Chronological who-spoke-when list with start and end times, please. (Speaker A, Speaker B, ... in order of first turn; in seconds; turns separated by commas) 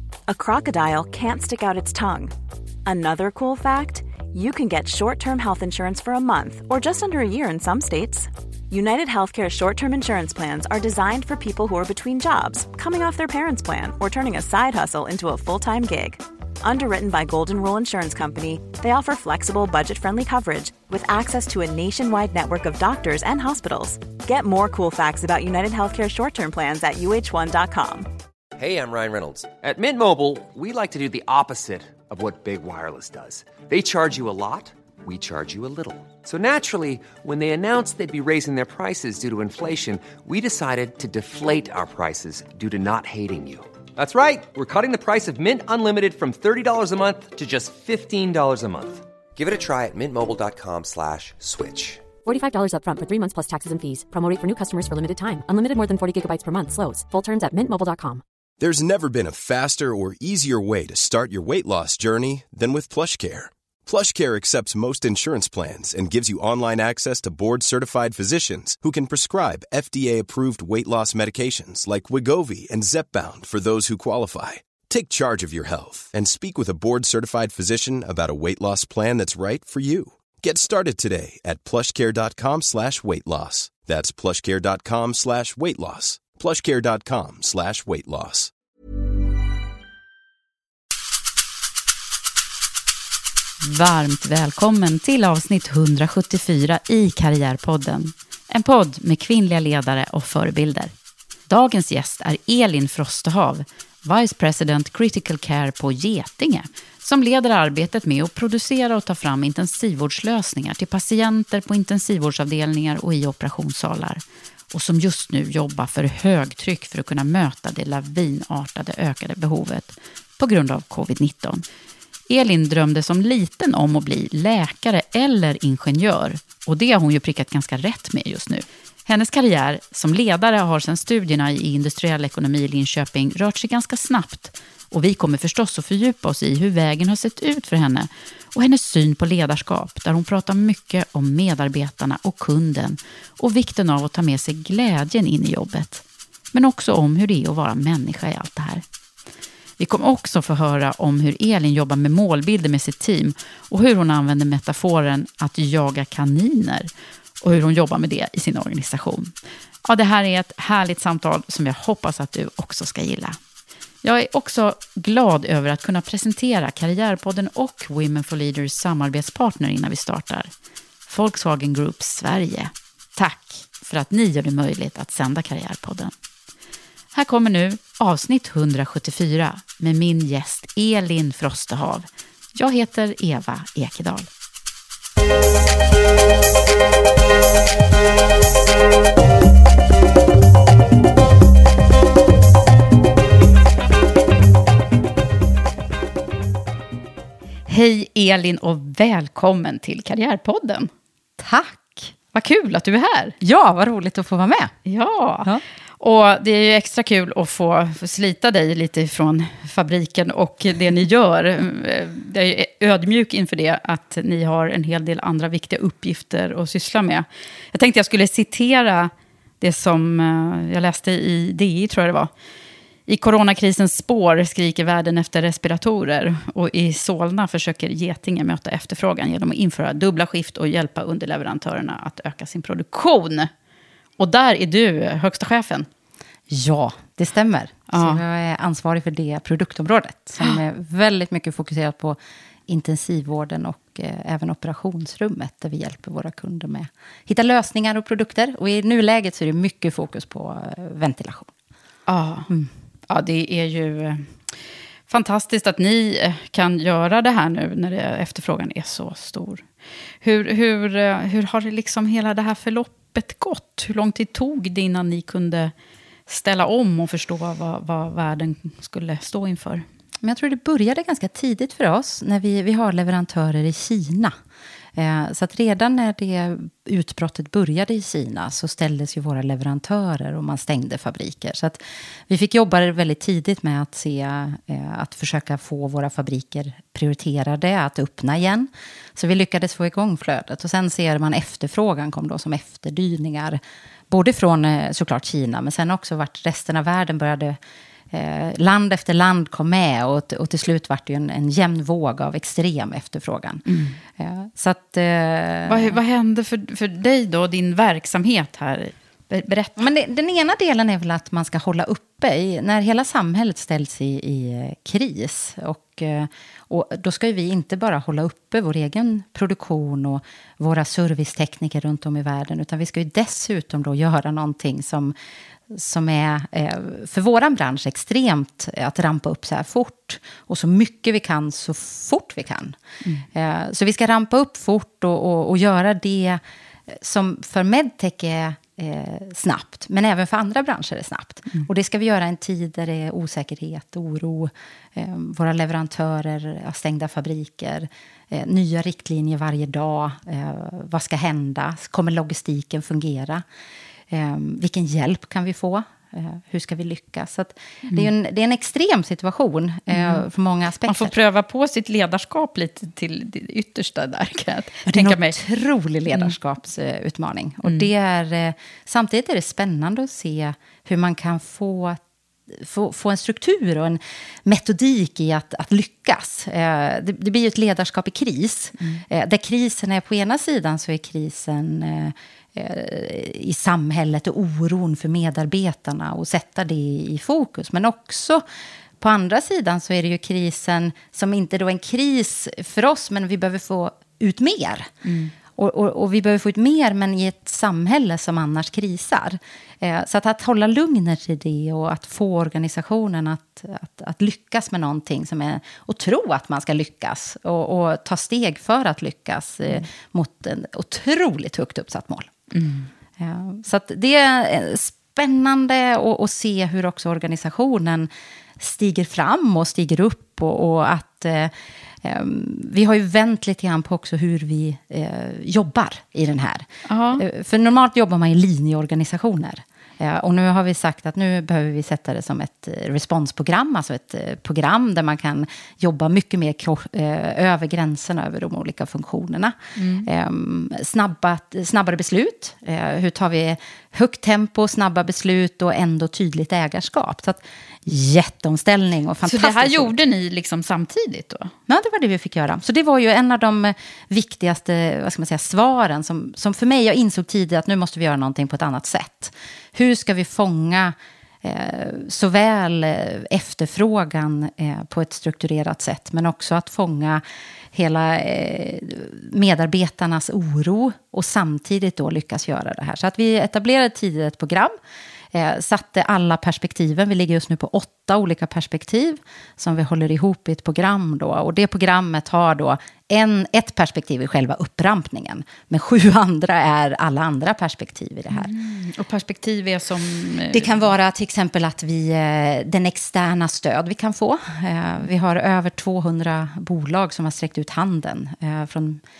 Speaker A: 0.3-2.3, Speaker A: 2.8-28.1, Speaker B: 28.6-52.0, Speaker C: 52.2-58.2, Speaker D: 58.6-88.5, Speaker E: 93.6-100.9, Speaker E: 101.5-121.6, Speaker E: 122.3-148.8, Speaker E: 149.8-156.9, Speaker E: 157.4-163.4, Speaker E: 164.0-170.5, Speaker E: 171.1-176.1, Speaker E: 177.1-184.3, Speaker E: 197.7-200.9, Speaker F: 201.4-202.1, Speaker E: 202.3-203.3, Speaker F: 203.4-204.7, Speaker E: 204.8-222.3, Speaker E: 223.1-233.5, Speaker E: 234.2-235.9, Speaker F: 236.5-251.5, Speaker E: 237.9-238.2, Speaker E: 252.1-252.5, Speaker E: 253.1-254.3, Speaker E: 255.1-259.7, Speaker E: 260.2-265.7, Speaker E: 266.3-269.9, Speaker F: 270.2-274.4, Speaker F: 274.9-297.6, Speaker F: 298.1-306.0, Speaker E: 303.7-304.0, Speaker E: 305.7-309.8, Speaker F: 309.8-325.2, Speaker F: 325.7-353.4, Speaker F: 354.1-361.1, Speaker E: 359.9-360.2, Speaker E: 360.9-365.4, Speaker F: 364.9-388.4, Speaker E: 367.6-367.9, Speaker E: 378.8-379.0, Speaker F: 389.0-394.9, Speaker E: 395.1-395.3, Speaker F: 395.5-412.3, Speaker E: 412.5-412.9, Speaker F: 413.2-449.9, Speaker E: 426.9-427.2, Speaker E: 439.8-440.1, Speaker E: 449.3-451.5, Speaker F: 451.7-474.8, Speaker F: 475.3-488.5, Speaker E: 488.3-490.9, Speaker F: 490.5-499.0